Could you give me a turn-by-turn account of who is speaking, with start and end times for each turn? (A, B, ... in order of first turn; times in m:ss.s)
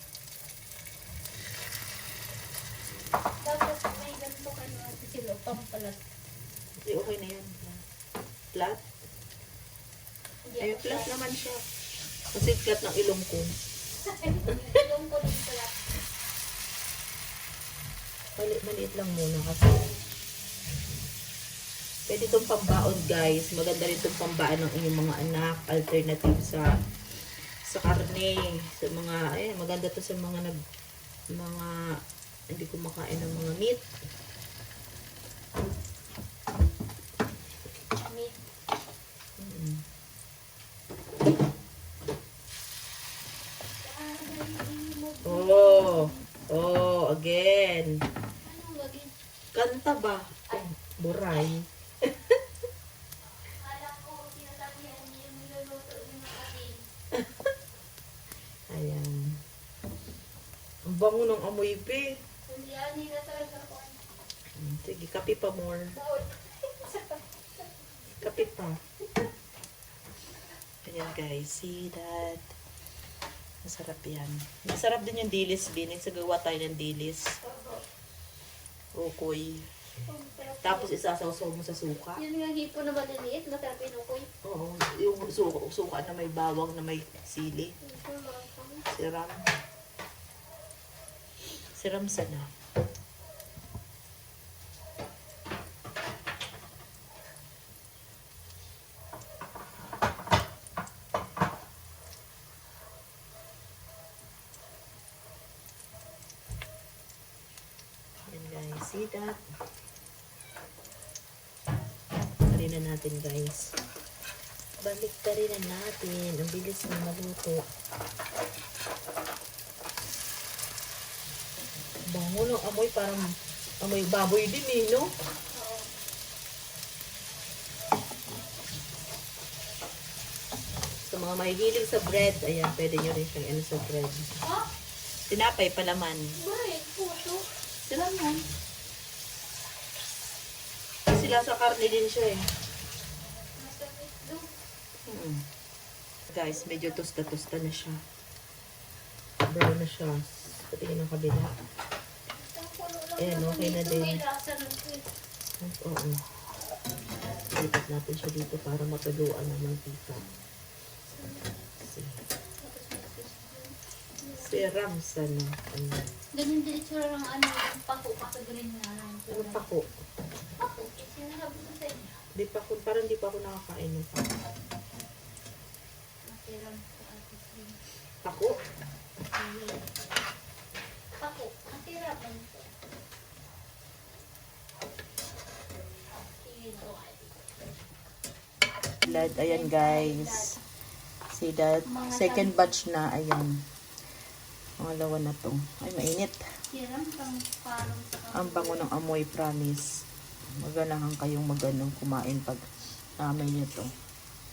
0:03.4-0:06.0 A
0:06.8-0:07.8 B
0:08.5-0:08.8 B
0:10.4-0:11.1 A
0:10.6-0:11.6 B
0:12.3-0:13.5 B
0:14.0-0:15.9 A
0:18.4-0:19.9 B
0:22.1-0:26.7 B
0:27.6-0:30.6 B
0:31.3-0:31.7 B
0:32.5-0:33.8 B
0:38.0-0:38.4 A
0:39.4-0:39.8 B
0:43.8-0:46.2 A
0:45.2-0:48.0 B
0:48.4-0:49.1 A
0:49.5-0:52.3 B
0:53.4-0:56.9 A
0:58.7-0:59.4 B
1:00.9-1:02.2 B
1:02.5-1:04.0 A
1:04.6-1:06.0 B
1:05.9-1:07.6 A
1:08.2-1:08.8 B
1:10.8-1:12.4 B
1:13.6-1:17.4 B
1:17.4-1:17.8 A
1:18.9-1:19.6 B
1:20.0-1:20.9 A
1:20.6-1:22.2 B
1:22.2-1:24.3 A
1:24.4-1:27.7 B
1:27.8-1:28.9 A
1:28.9-1:29.4 B
1:31.7-1:32.5 B
1:48.3-1:49.4 B
1:52.5-1:53.7 B
1:54.8-1:57.6 B
2:02.1-2:05.1 B
2:05.5-2:05.9 A
2:11.1-2:14.3 B
2:14.4-2:14.7 A
2:15.3-2:16.4 B
2:16.4-2:17.6 A
2:17.8-2:18.4 B
2:21.1-2:22.5 B
2:23.6-2:24.5 A
2:25.1-2:25.4 B
2:26.3-2:28.0 B
2:29.5-2:31.5 B
2:32.3-2:35.1 A
2:33.2-2:34.2 B
2:35.6-2:36.2 B
2:37.5-2:40.3 B
2:41.1-2:41.7 A
2:41.8-2:42.2 B
2:42.6-2:44.7 A
2:44.4-2:46.0 B
2:46.3-2:49.6 A
2:49.3-2:49.9 B
2:50.6-2:52.2 A
2:52.4-2:54.3 B
2:56.2-2:57.8 A
2:58.2-2:58.6 B
2:59.3-2:59.9 A
3:01.2-3:02.7 A
3:06.3-3:07.4 A
3:09.0-3:10.5 B
3:09.0-3:10.6 A
3:11.3-3:13.6 B
3:11.9-3:12.7 A
3:14.8-3:16.4 B
3:16.7-3:18.8 A
3:18.3-3:19.9 B
3:20.6-3:22.6 B
3:23.2-3:23.9 B